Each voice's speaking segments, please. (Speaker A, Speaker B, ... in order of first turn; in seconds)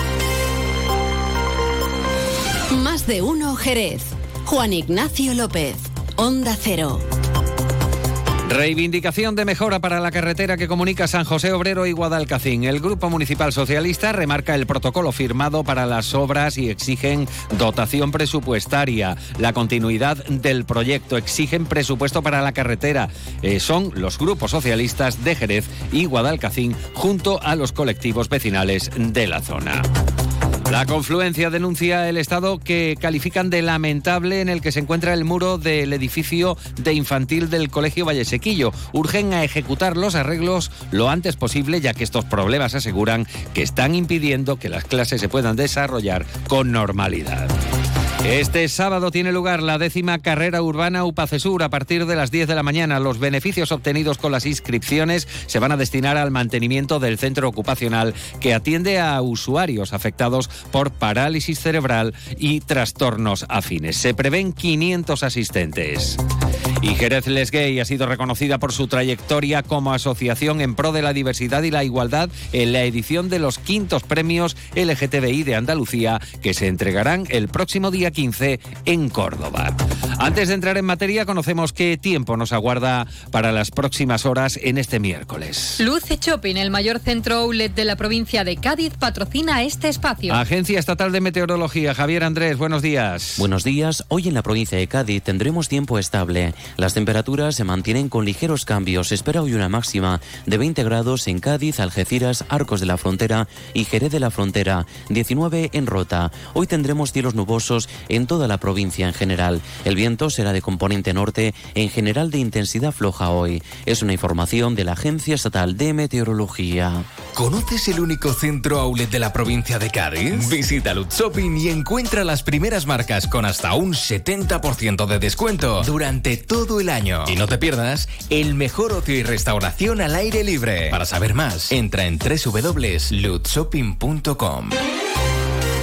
Speaker A: 2.7-7.0
Speaker B: 8.5-29.9, 30.7-47.5, 48.2-66.2, 66.8-85.8, 90.3-93.4
Speaker C: 85.8-90.4
Speaker D: 93.3-117.0
Speaker E: 117.3-134.7